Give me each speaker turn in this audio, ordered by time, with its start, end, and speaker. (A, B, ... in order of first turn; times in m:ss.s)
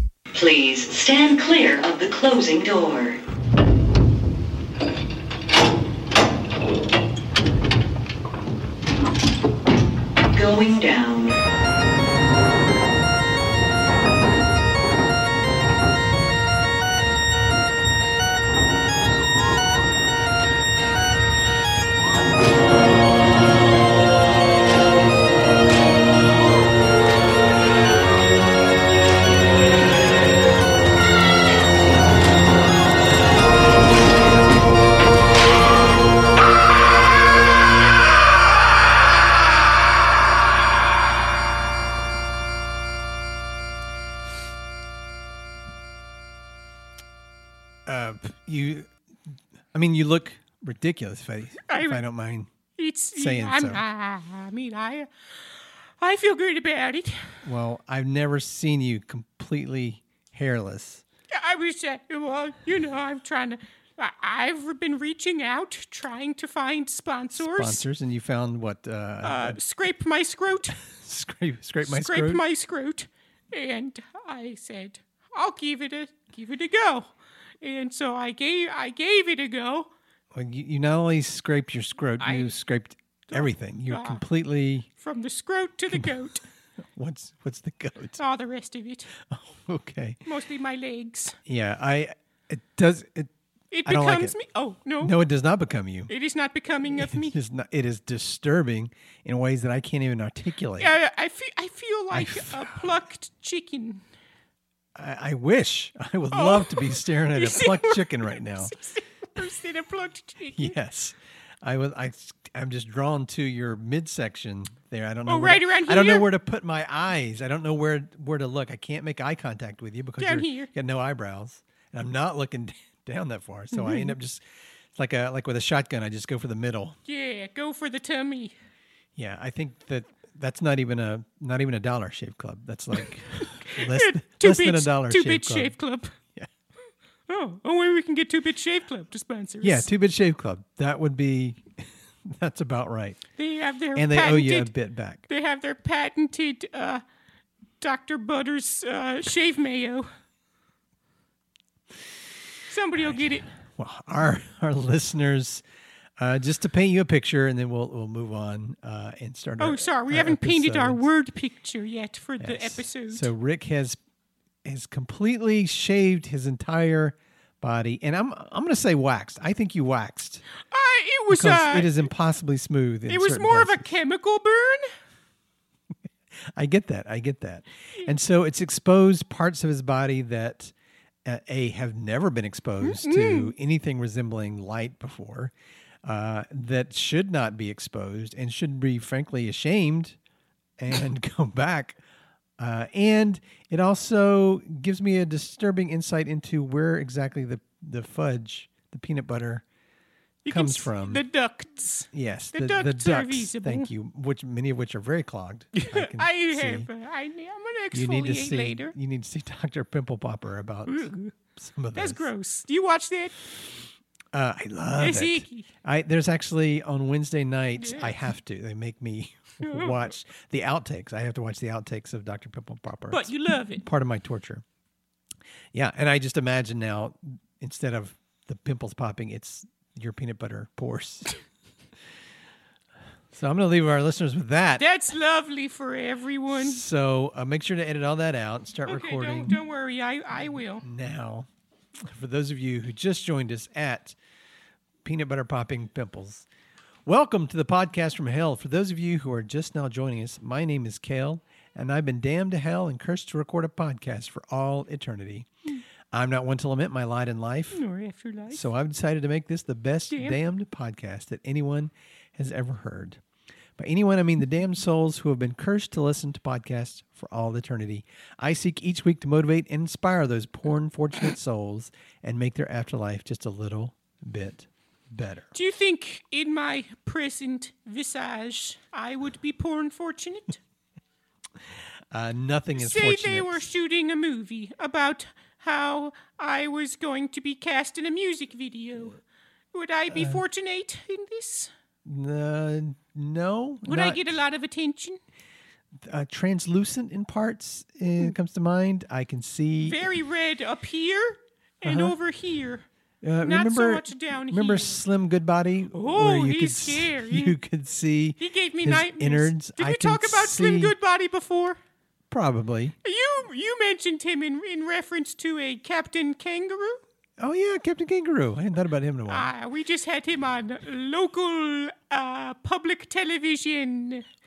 0:00.3-0:03.2 A
0:10.3-0:11.4 A
0:47.8-0:48.9 B
0:49.7-0:52.5 B
0:51.7-0:52.0 C
0:52.7-0:57.3 C
0:53.1-0:53.8 B
0:57.4-1:01.0 B
1:01.3-1:07.8 C
1:07.3-1:09.6 B
1:09.2-1:10.8 C
1:10.8-1:12.4 B
1:11.8-1:19.9 C
1:20.3-1:24.9 B
1:22.2-1:22.6 C
1:23.3-1:24.2 C
1:25.0-1:26.4 C
1:27.0-1:28.2 B
1:28.2-1:29.1 C
1:29.2-1:30.2 B
1:30.2-1:31.4 C
1:31.4-1:33.3 B
1:33.7-1:35.1 C
1:33.8-1:34.4 B
1:35.0-1:36.1 B
1:36.1-1:37.4 C
1:36.9-1:40.9 B
1:40.8-1:44.0 C
1:42.1-1:43.0 B
1:44.9-1:48.7 B
1:46.3-1:50.8 C
1:50.5-2:07.0 B
1:55.2-1:56.3 C
2:00.2-2:00.7 C
2:03.7-2:04.1 C
2:07.1-2:08.5 C
2:09.2-2:15.8 B
2:13.4-2:16.2 C
2:17.3-2:19.9 C
2:19.6-2:23.2 B
2:23.4-2:24.7 C
2:23.9-2:25.2 B
2:25.3-2:27.0 C
2:27.8-2:30.1 C
2:32.7-2:33.5 C
2:33.6-2:35.6 B
2:36.2-2:41.0 B
2:39.6-2:43.3 C
2:42.4-2:44.0 B
2:44.6-2:50.4 B
2:50.7-2:52.1 C
2:51.3-2:54.0 B
2:53.1-2:54.9 C
2:56.5-3:00.7 B
3:01.2-3:05.5 B
3:02.8-3:03.5 C
3:06.0-3:10.2 B
3:10.8-3:12.0 B
3:12.6-3:19.6 B
3:20.4-3:23.9 C
3:20.5-3:21.2 B
3:22.1-3:26.9 B
3:25.7-3:28.9 C
3:27.9-3:32.3 B
3:30.8-3:31.3 C
3:31.9-3:33.3 C
3:34.3-3:44.6 B
3:35.0-3:35.7 C
3:37.8-3:38.2 C
3:39.6-3:40.1 C
3:43.1-3:43.8 C
3:45.7-3:51.3 B
3:53.3-3:54.8 B
3:54.8-3:56.8 C
3:56.5-3:59.6 B
3:58.8-4:00.8 C
4:00.8-4:01.5 B
4:02.0-4:04.2 B
4:05.0-4:06.4 B
4:07.0-4:15.5 B
4:16.1-4:17.8 B
4:17.7-4:18.7 C
4:18.5-4:23.2 B
4:20.1-4:20.4 C
4:23.8-4:35.5 B
4:35.5-4:40.6 C
4:42.1-4:43.7 B
4:42.7-4:49.2 C
4:49.7-4:51.7 C
4:50.1-4:50.4 B
4:52.0-4:54.4 B
4:53.8-4:55.2 C
4:56.0-5:00.0 B
4:59.8-5:02.8 C
5:01.8-5:02.2 B
5:03.2-5:11.0 B
5:03.4-5:05.0 C
5:05.9-5:07.6 C
5:08.4-5:11.8 C
5:12.3-5:13.0 B
5:13.0-5:17.0 C
5:17.4-5:19.5 B
5:19.3-5:24.2 C